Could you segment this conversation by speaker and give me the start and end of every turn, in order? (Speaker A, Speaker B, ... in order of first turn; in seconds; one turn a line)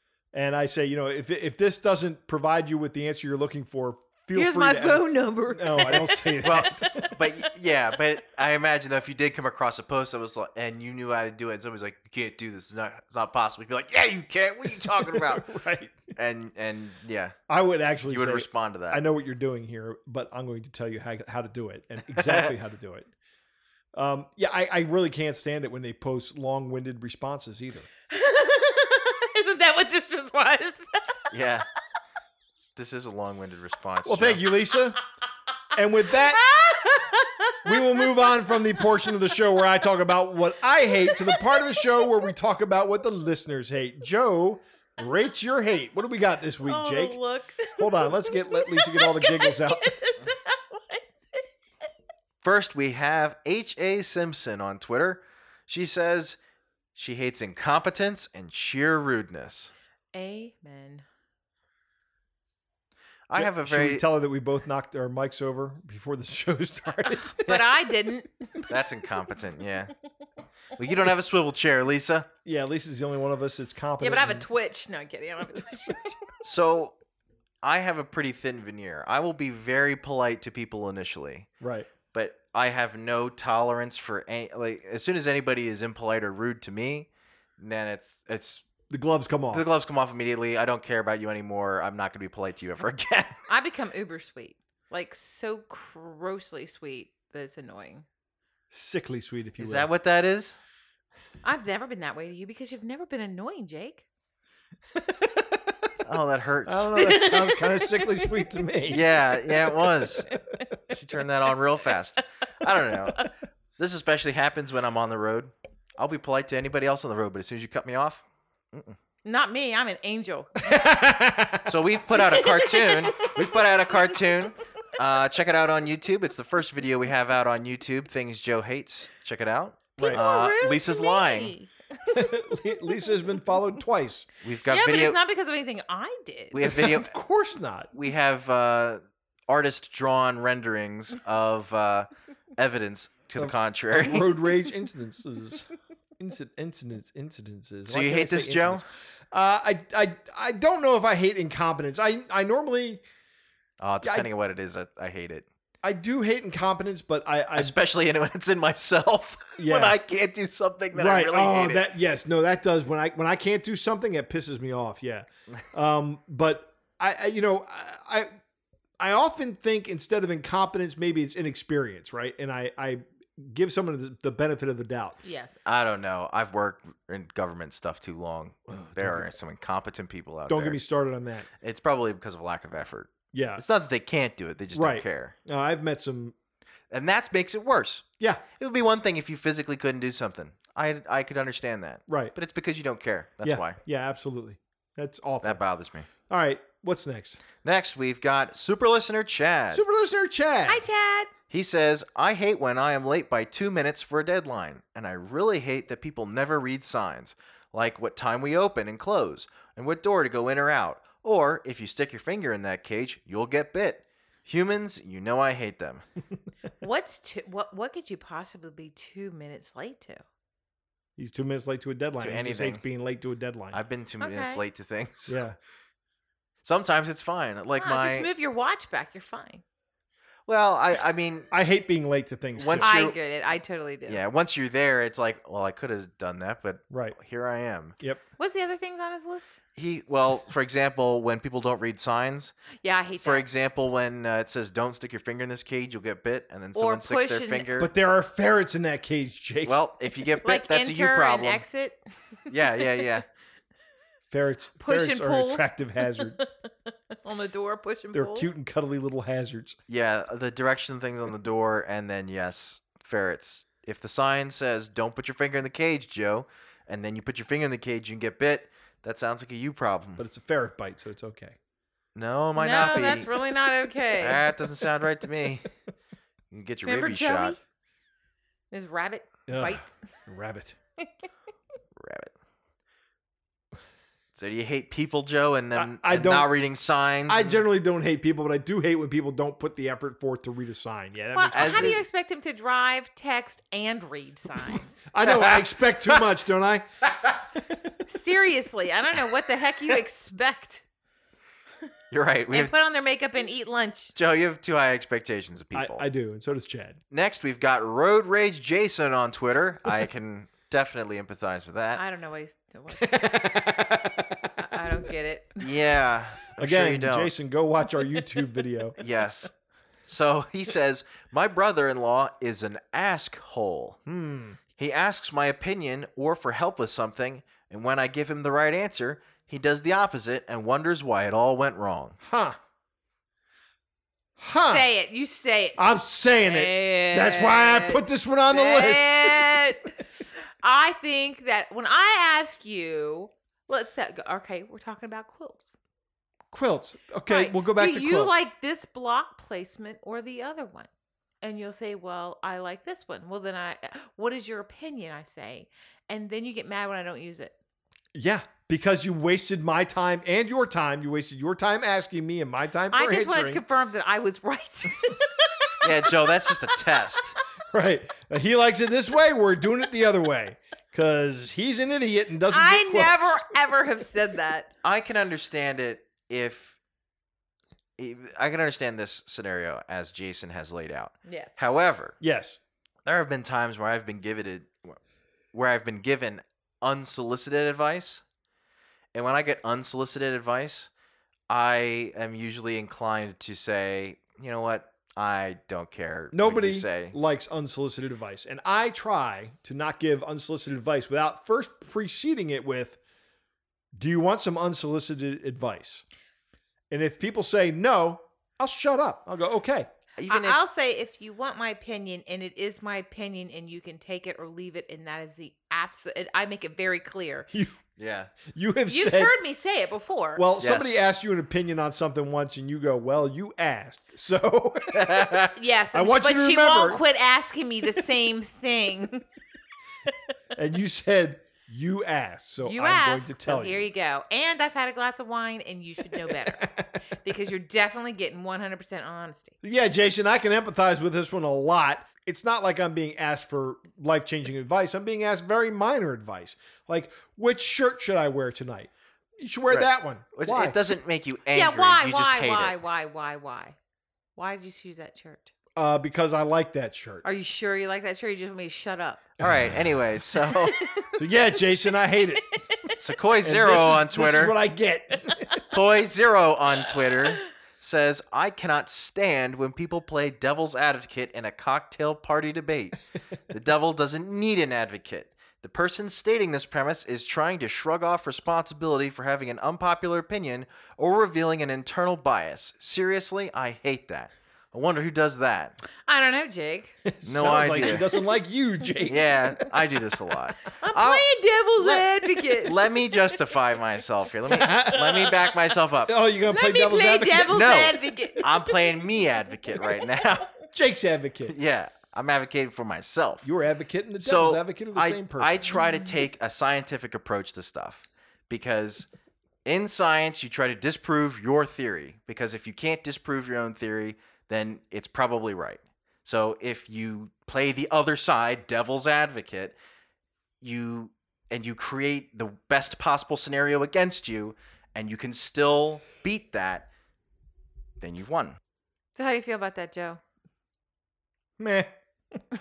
Speaker A: 0.3-7.1
Speaker B: 4.3-7.2
Speaker C: 6.4-15.5
Speaker A: 14.8-16.0
Speaker C: 16.1-17.4
Speaker A: 17.5-23.1
Speaker C: 18.1-19.0
Speaker C: 22.1-22.5
Speaker A: 23.9-27.9
Speaker B: 28.1-31.1
Speaker C: 31.3-31.6
Speaker C: 32.8-34.4
Speaker A: 34.0-35.0
Speaker A: 35.7-36.4
Speaker B: 36.1-39.1
Speaker A: 37.6-47.2
Speaker B: 41.0-41.7
Speaker B: 46.6-51.4
Speaker A: 47.8-50.0
Speaker C: 52.4-56.4
Speaker C: 57.0-59.7
Speaker B: 60.1-61.0
Speaker C: 63.3-64.0
Speaker A: 63.4-67.7
Speaker B: 67.1-68.7
Speaker C: 68.7-69.9
Speaker C: 70.8-72.3
Speaker A: 72.5-74.5
Speaker B: 74.0-76.2
Speaker C: 76.4-77.0
Speaker C: 77.6-81.5
Speaker A: 81.6-81.9
Speaker C: 82.1-87.1
Speaker C: 87.6-88.7
Speaker A: 88.9-89.7
Speaker C: 89.5-93.4
Speaker B: 93.5-98.1
Speaker A: 98.7-99.9
Speaker C: 99.6-100.6
Speaker B: 101.4-104.0
Speaker A: 105.0-105.6
Speaker C: 106.0-106.9
Speaker A: 106.7-109.0
Speaker B: 107.0-108.5
Speaker C: 108.9-110.3
Speaker B: 110.3-110.7
Speaker C: 110.9-119.0
Speaker B: 119.2-120.8
Speaker A: 120.6-121.7
Speaker C: 121.7-131.6
Speaker B: 122.2-123.7
Speaker B: 130.0-132.3
Speaker A: 130.0-130.2
Speaker A: 132.1-134.3
Speaker C: 134.4-135.2
Speaker B: 134.7-136.6
Speaker C: 136.5-137.1
Speaker A: 136.6-137.9
Speaker C: 137.9-144.4
Speaker A: 143.4-153.0
Speaker C: 147.9-148.8
Speaker C: 153.8-155.5
Speaker A: 154.0-154.3
Speaker A: 155.8-157.8
Speaker C: 157.6-161.8
Speaker A: 159.6-160.0
Speaker A: 160.9-168.3
Speaker A: 169.0-175.2
Speaker B: 175.2-175.6
Speaker C: 175.7-180.8
Speaker A: 178.7-179.3
Speaker A: 180.5-181.5
Speaker C: 181.6-185.3
Speaker A: 183.3-183.6
Speaker A: 184.7-186.3
Speaker C: 186.9-188.1
Speaker C: 188.6-193.8
Speaker A: 192.1-192.3
Speaker A: 193.4-195.6
Speaker C: 195.4-196.1
Speaker A: 196.3-197.4
Speaker C: 197.6-199.8
Speaker A: 199.7-200.8
Speaker B: 200.7-201.3
Speaker C: 201.5-216.0
Speaker B: 216.8-220.2
Speaker A: 221.2-223.8
Speaker C: 222.2-222.8
Speaker C: 223.7-225.4
Speaker B: 224.2-224.6
Speaker A: 225.3-225.6
Speaker C: 226.6-228.3
Speaker B: 227.8-229.6
Speaker C: 230.5-231.5
Speaker A: 231.5-232.9
Speaker C: 232.6-233.2
Speaker B: 232.8-234.2
Speaker C: 234.1-238.0
Speaker A: 236.9-237.2
Speaker B: 238.4-239.6
Speaker C: 239.8-242.5
Speaker B: 242.8-243.5
Speaker C: 243.2-247.9
Speaker B: 246.8-247.7
Speaker A: 247.8-249.8
Speaker C: 249.7-251.6
Speaker B: 250.4-252.0
Speaker C: 252.5-253.2
Speaker A: 254.3-256.4
Speaker B: 254.8-256.5
Speaker B: 257.2-258.5
Speaker A: 258.1-259.8
Speaker C: 259.9-270.2
Speaker A: 270.2-271.6
Speaker C: 272.1-273.3
Speaker B: 272.6-274.4
Speaker C: 274.2-275.7
Speaker C: 276.5-277.6
Speaker B: 276.9-277.6
Speaker B: 278.7-279.9
Speaker A: 279.5-280.8
Speaker C: 282.0-282.3
Speaker C: 284.4-287.6
Speaker A: 285.8-286.5
Speaker A: 287.3-292.0
Speaker B: 291.4-295.0
Speaker C: 291.5-292.0
Speaker A: 295.1-296.9
Speaker C: 295.2-296.2
Speaker C: 297.1-297.4
Speaker A: 297.6-297.9
Speaker B: 298.1-300.9
Speaker C: 302.1-302.7
Speaker B: 302.5-304.1
Speaker C: 304.1-306.1
Speaker A: 305.7-307.0
Speaker C: 307.1-312.0
Speaker B: 311.9-313.8
Speaker A: 313.1-314.5
Speaker B: 314.6-315.7
Speaker C: 315.6-317.3
Speaker A: 316.6-319.0
Speaker C: 319.0-319.5
Speaker C: 320.1-324.0
Speaker A: 324.1-324.6
Speaker C: 324.8-332.2
Speaker A: 332.2-332.6
Speaker A: 334.4-334.9
Speaker B: 334.7-340.0
Speaker A: 335.8-339.6
Speaker B: 340.6-345.7
Speaker A: 346.5-348.3
Speaker B: 347.3-350.9
Speaker B: 351.4-357.6
Speaker A: 358.1-363.6
Speaker B: 362.9-367.0
Speaker C: 365.8-367.4
Speaker A: 367.7-373.4
Speaker B: 372.5-374.7
Speaker C: 374.8-376.8
Speaker C: 378.0-382.2
Speaker B: 381.3-381.6
Speaker A: 382.2-382.6
Speaker C: 383.1-385.0
Speaker C: 385.5-388.2
Speaker C: 389.1-390.9
Speaker C: 391.5-397.1
Speaker A: 396.3-403.0
Speaker A: 403.9-406.1
Speaker A: 406.9-409.9
Speaker C: 410.2-410.6
Speaker B: 410.3-417.5
Speaker A: 417.5-417.8
Speaker C: 418.0-418.4
Speaker A: 418.4-419.4
Speaker B: 418.9-420.4
Speaker A: 420.4-427.0
Speaker C: 420.6-421.0
Speaker C: 424.9-425.5
Speaker B: 425.6-429.2
Speaker A: 430.6-433.9
Speaker B: 432.6-439.6
Speaker A: 436.3-436.9
Speaker A: 439.6-450.8
Speaker C: 449.7-452.8
Speaker B: 451.5-453.8
Speaker B: 454.4-455.5
Speaker A: 455.8-457.2
Speaker B: 457.2-459.3
Speaker A: 459.4-459.8
Speaker C: 459.4-460.8
Speaker B: 460.8-461.1
Speaker A: 461.2-462.5
Speaker B: 462.7-463.0
Speaker C: 463.0-464.5
Speaker A: 463.4-465.6
Speaker C: 465.7-485.8
Speaker B: 486.1-487.0
Speaker A: 487.1-489.6
Speaker C: 487.2-488.1
Speaker C: 489.1-491.3
Speaker B: 490.8-493.4
Speaker C: 491.8-496.1
Speaker A: 494.5-495.3
Speaker B: 494.7-495.5
Speaker A: 496.1-497.6
Speaker B: 496.4-498.8
Speaker C: 497.5-500.5
Speaker A: 500.7-501.6
Speaker C: 501.5-503.5
Speaker A: 503.4-505.8
Speaker C: 504.2-509.1
Speaker C: 509.6-519.8
Speaker C: 520.6-526.9
Speaker C: 528.0-528.6
Speaker B: 529.1-530.2
Speaker A: 531.6-532.4